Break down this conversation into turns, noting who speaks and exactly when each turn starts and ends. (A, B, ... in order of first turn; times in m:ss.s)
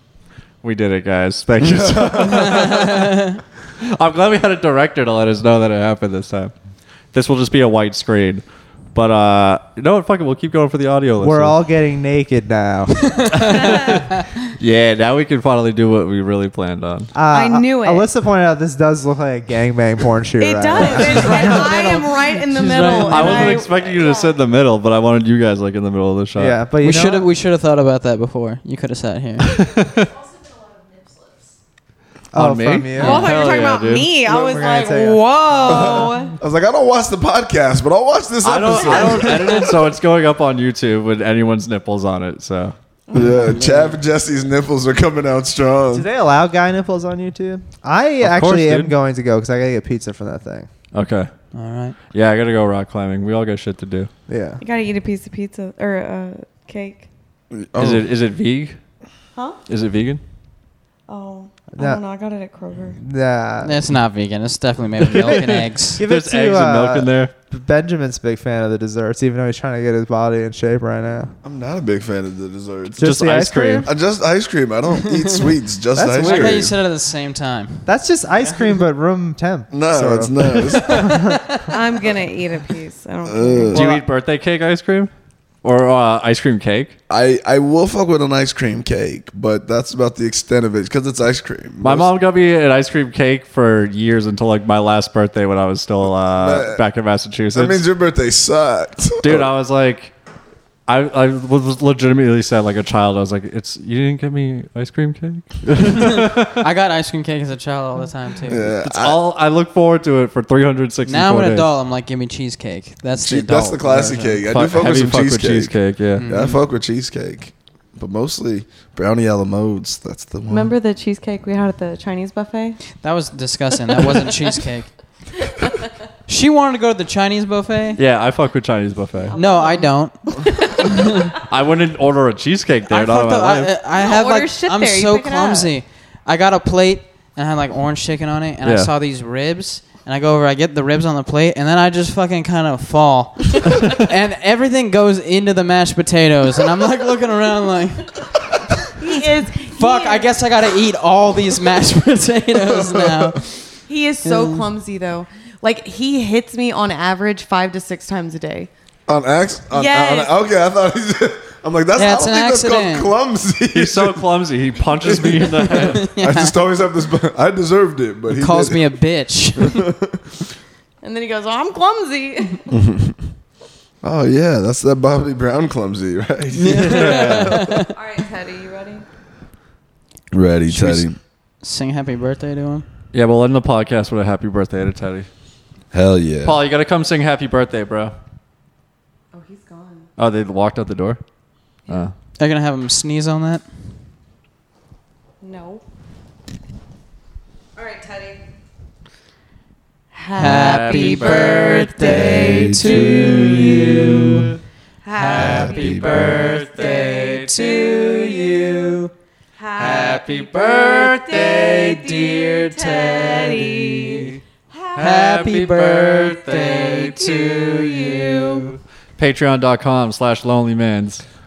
0:00.6-0:06.5 A
0:01.6-0:02.8 B
0:02.6-0:03.3 C
0:07.1-0:08.4 A
0:09.0-0:11.6 A
0:11.2-0:13.4 D
0:13.1-0:13.5 C
0:13.3-0:17.1 A
0:13.4-0:14.0 E
0:17.1-0:21.8 D
0:17.3-0:18.1 E
0:20.4-0:24.4 E
0:20.8-0:23.6 C
0:23.1-0:26.6 A
0:26.4-0:27.3 D
0:26.8-0:29.6 C
0:29.4-0:30.1 A
0:32.3-0:33.3 D
0:32.3-0:34.1 A
0:33.0-0:36.4 E
0:33.0-0:33.3 C
0:34.2-0:36.1 D
0:35.6-0:39.8 B
0:38.4-0:42.8 A
0:38.7-0:39.6 E
0:43.1-0:43.6 E
0:43.1-0:46.1 B
0:43.2-0:44.0 C
0:45.9-0:50.7 D
0:48.2-0:48.9 A
0:50.9-0:51.3 A
0:51.5-0:52.0 C
0:52.1-0:54.1 A
0:54.3-0:54.6 D
0:54.6-0:57.1 E
0:57.5-0:58.0 B
0:57.8-0:58.8 A
0:59.7-1:00.2 A
1:01.1-1:03.0 E
1:03.0-1:03.8 D
1:03.6-1:06.0 C
1:05.1-1:07.3 A
1:05.1-1:11.3 D
1:11.4-1:13.1 B
1:13.0-1:13.9 A
1:13.0-1:13.9 D
1:13.8-1:16.7 B
1:14.9-1:15.6 C
1:16.0-1:16.7 D
1:16.1-1:18.7 C
1:17.8-1:21.6 D
1:19.7-1:21.4 B
1:21.7-1:23.8 E
1:23.3-1:23.8 B
1:23.7-1:25.1 A
1:23.7-1:24.1 D
1:25.6-1:27.0 A
1:27.1-1:32.1 B
1:31.8-1:37.8 A
1:36.4-1:36.8 B
1:37.5-1:39.5 B
1:39.2-1:40.1 A
1:40.9-1:46.6 A
1:46.0-1:48.7 C
1:48.5-1:49.2 B
1:48.8-1:51.7 A
1:51.1-1:54.4 C
1:53.2-2:00.7 B
1:54.5-1:56.3 A
1:56.2-1:56.6 C
2:00.5-2:02.8 E
2:03.0-2:04.9 C
2:06.3-2:08.0 C
2:08.0-2:09.4 A
2:09.3-2:11.4 E
2:09.3-2:11.3 C
2:11.3-2:13.7 A
2:12.9-2:28.3 C
2:14.0-2:15.7 E
2:18.6-2:18.9 A
2:29.0-2:30.3 E
2:29.6-2:33.6 C
2:32.7-2:33.3 B
2:33.9-2:38.7 E
2:34.2-2:34.7 C
2:39.1-2:44.2 B
2:39.7-2:40.3 E
2:42.0-2:43.1 C
2:43.7-2:46.1 A
2:45.0-2:48.8 B
2:45.7-2:46.6 C
2:48.3-2:49.9 C
2:49.6-2:50.2 B
2:51.0-2:52.7 E
2:52.7-2:53.2 B
2:54.0-2:57.7 B
2:56.5-2:57.9 C
2:56.8-2:57.7 A
2:57.9-2:59.0 E
3:00.3-3:01.2 B
3:00.7-3:01.0 C
3:00.7-3:01.0 A
3:01.6-3:02.9 C
3:03.1-3:05.3 A
3:05.9-3:06.6 B
3:06.4-3:08.1 A
3:09.3-3:10.1 E
3:10.2-3:11.2 A
3:11.9-3:12.1 A
3:12.4-3:13.6 C
3:15.4-3:15.8 E
3:17.8-3:18.4 E
3:20.1-3:23.0 E
3:20.4-3:24.5 C
3:20.4-3:24.6 A
3:22.2-3:23.1 B
3:25.0-3:28.6 E
3:25.2-3:27.9 A
3:25.3-3:26.5 B
3:26.8-3:29.1 C
3:29.6-3:35.1 E
3:29.8-3:34.4 A
3:31.6-3:32.0 C
3:33.0-3:33.4 C
3:35.0-3:41.2 A
3:35.0-3:38.6 C
3:36.5-3:38.7 E